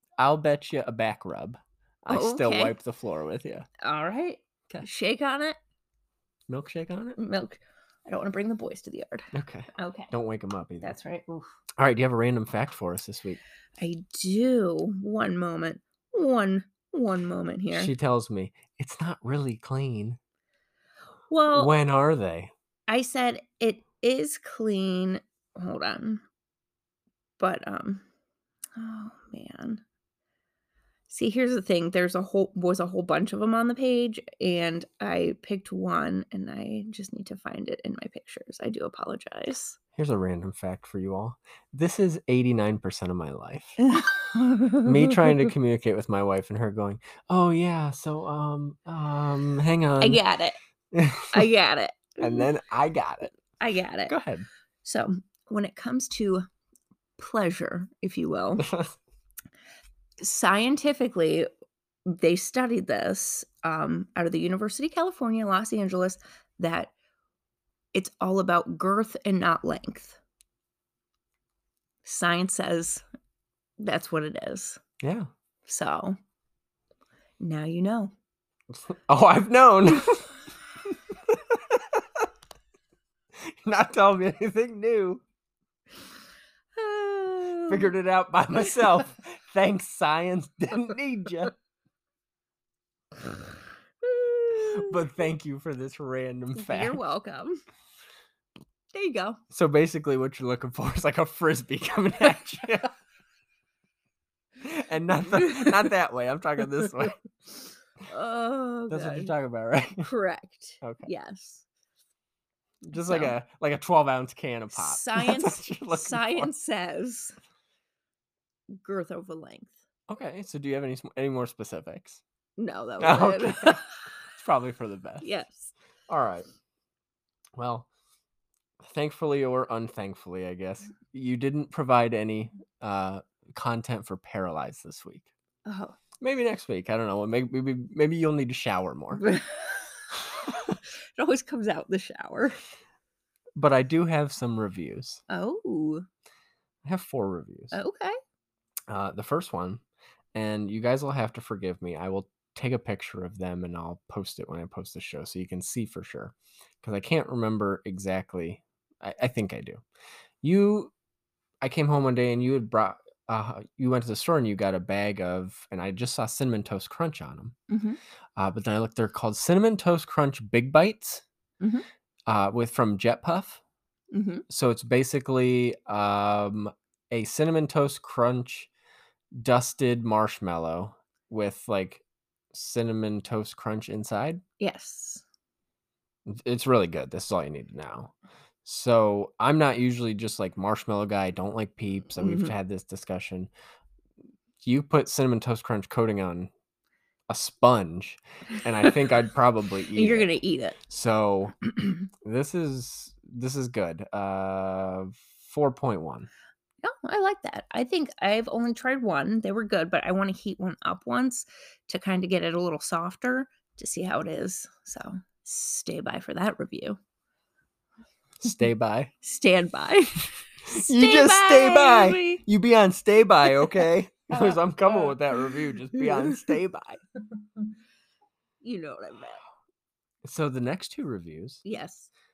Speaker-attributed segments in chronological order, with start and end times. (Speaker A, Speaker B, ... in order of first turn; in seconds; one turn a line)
Speaker A: 0.2-3.7
Speaker B: 2.1-2.7
Speaker B: 3.8-5.6
Speaker A: 6.5-7.2
Speaker B: 7.2-10.1
Speaker A: 9.3-10.9
Speaker B: 10.8-11.5
Speaker A: 11.8-13.4
Speaker B: 13.8-17.9
Speaker A: 17.7-20.2
Speaker B: 21.3-21.7
Speaker A: 21.5-22.5
Speaker B: 22.9-26.2
Speaker B: 27.4-28.0
Speaker B: 28.8-29.8
Speaker B: 31.1-39.8
Speaker A: 39.9-43.8
Speaker B: 43.8-45.3
Speaker A: 44.8-50.2
Speaker B: 50.0-50.6
Speaker A: 50.9-51.4
Speaker B: 51.3-52.5
Speaker A: 52.2-53.3
Speaker B: 53.4-54.1
Speaker A: 54.1-54.5
Speaker B: 54.8-56.5
Speaker B: 57.2-58.6
Speaker A: 58.6-58.9
Speaker B: 60.2-61.5
Speaker B: 62.0-66.9
Speaker B: 67.9-70.2
Speaker B: 72.0-73.0
Speaker B: 73.8-74.8
Speaker A: 75.0-75.3
Speaker B: 75.7-76.2
Speaker B: 77.4-78.1
Speaker A: 78.7-80.3
Speaker A: 81.1-82.2
Speaker A: 83.4-85.2
Speaker B: 86.7-87.9
Speaker A: 87.7-91.5
Speaker B: 94.0-94.9
Speaker A: 94.5-97.0
Speaker B: 96.5-97.6
Speaker B: 98.9-99.4
Speaker A: 99.5-102.9
Speaker A: 104.6-107.2
Speaker B: 105.3-105.7
Speaker B: 108.1-109.3
Speaker A: 108.9-110.1
Speaker B: 110.0-111.6
Speaker A: 110.8-111.1
Speaker A: 112.8-116.5
Speaker B: 112.9-113.3
Speaker B: 114.7-117.4
Speaker B: 118.7-119.7
Speaker A: 120.1-122.2
Speaker B: 122.6-123.9
Speaker A: 123.0-125.3
Speaker B: 125.2-125.7
Speaker A: 126.1-126.5
Speaker A: 127.5-127.9
Speaker A: 128.8-135.3
Speaker B: 135.6-136.0
Speaker A: 136.2-139.2
Speaker B: 139.1-142.6
Speaker A: 143.6-145.2
Speaker B: 145.3-146.1
Speaker A: 146.8-147.8
Speaker B: 147.7-148.2
Speaker A: 148.9-149.8
Speaker A: 150.3-159.8
Speaker A: 160.4-160.9
Speaker A: 161.6-167.5
Speaker B: 167.7-168.0
Speaker A: 168.3-171.2
Speaker A: 172.3-173.6
Speaker B: 174.1-174.4
Speaker A: 174.5-178.7
Speaker A: 179.3-182.0
Speaker A: 182.5-184.4
Speaker B: 184.6-185.2
Speaker A: 186.2-188.1
Speaker A: 188.6-193.5
Speaker B: 192.2-192.5
Speaker A: 194.6-196.5
Speaker A: 197.3-200.3
Speaker B: 199.9-200.8
Speaker A: 200.8-201.6
Speaker A: 202.2-206.3
Speaker B: 206.8-217.0
Speaker A: 218.4-219.1
Speaker B: 219.2-222.4
Speaker A: 220.6-227.0
Speaker B: 228.6-229.4
Speaker A: 230.2-231.6
Speaker B: 231.6-232.1